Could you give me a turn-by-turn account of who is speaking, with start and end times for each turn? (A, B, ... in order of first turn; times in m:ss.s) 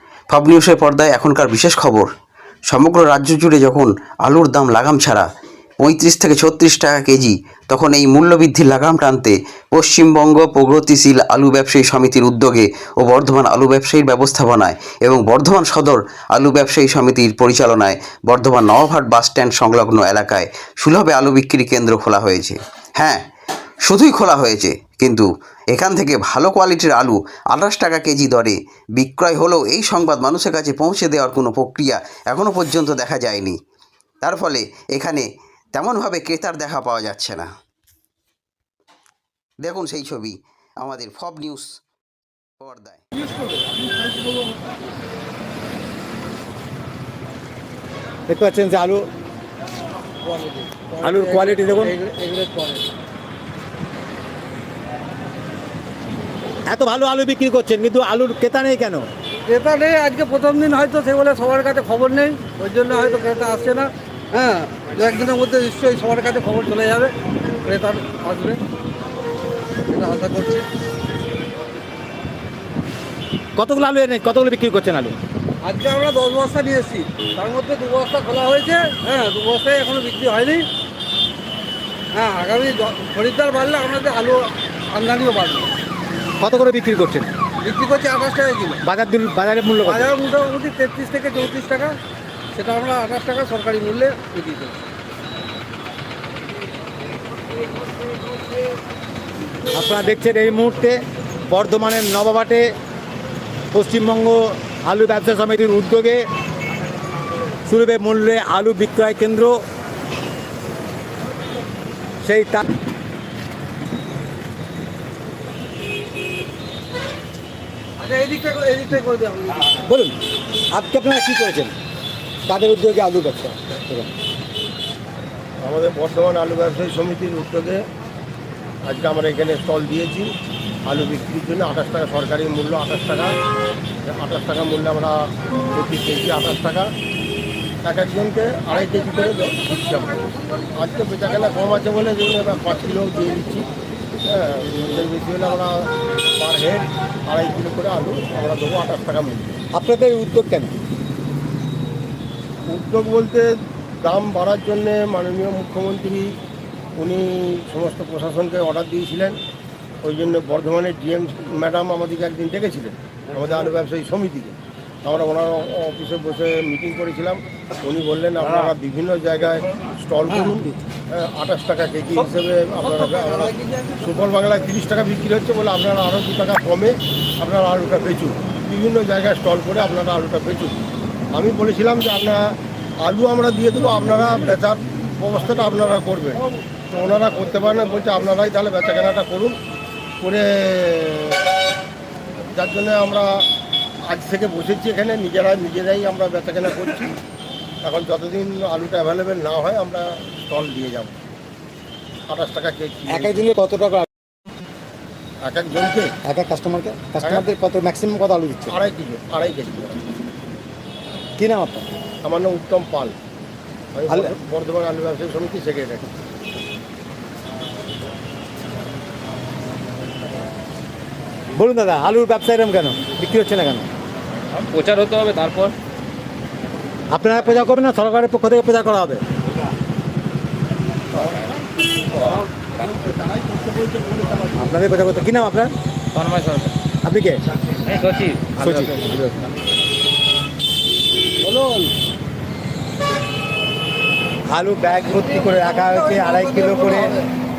0:00.3-0:02.1 A
0:02.7-0:05.3 A
0:05.8-0:23.2 A
0:23.9-0:33.6 A
0:34.2-0:37.5 A
0:39.6-0:41.7 A
0:42.6-0:43.0 A
0:48.3-0:49.0 B
0:50.2-0:52.8 C
0:51.0-0:51.9 B
0:56.7-0:59.1 B
0:59.5-1:07.1 C
1:07.6-1:08.6 C
1:09.9-1:10.6 C
1:13.6-1:15.2 B
1:15.6-1:20.6 C
1:22.1-1:25.7 C
1:26.4-1:27.3 B
1:27.6-1:28.8 C
1:28.8-1:30.1 B
1:29.8-1:31.9 C
1:32.5-1:34.8 C
1:39.7-1:42.7 B
1:43.7-1:46.2 B
1:47.6-1:49.6 B
1:52.2-1:52.6 B
1:58.0-1:59.8 C
1:59.8-2:00.1 B
2:00.7-2:01.8 B
2:02.5-2:04.1 B
2:05.6-2:07.8 D
2:08.8-2:10.3 D
2:10.8-2:13.3 D
2:14.0-2:16.9 D
2:17.8-2:23.7 D
2:24.3-2:29.6 D
2:29.7-2:30.7 B
2:32.7-2:33.5 D
2:34.0-2:36.3 D
2:37.0-2:39.4 D
2:40.0-3:00.8 D
2:52.8-2:53.8 C
3:01.3-3:02.4 D
3:03.0-3:09.6 D
3:10.2-3:11.4 D
3:12.5-3:13.4 D
3:14.1-3:17.2 D
3:17.8-3:21.1 D
3:22.3-3:23.4 D
3:23.1-3:24.1 B
3:25.4-3:26.1 D
3:26.2-3:28.8 B
3:28.7-3:30.0 D
3:31.4-3:31.9 B
3:32.2-3:33.2 D
3:33.9-3:36.1 D
3:41.6-3:43.9 B
3:44.5-3:45.7 E
3:47.1-3:49.2 B
3:54.0-3:54.4 D
3:54.5-3:55.7 B
3:56.1-3:56.7 E
3:57.0-3:57.4 B
3:57.8-3:59.4 E
3:58.6-3:59.0 B
4:01.4-4:01.9 C
4:04.5-4:07.2 B
4:05.4-4:07.2 C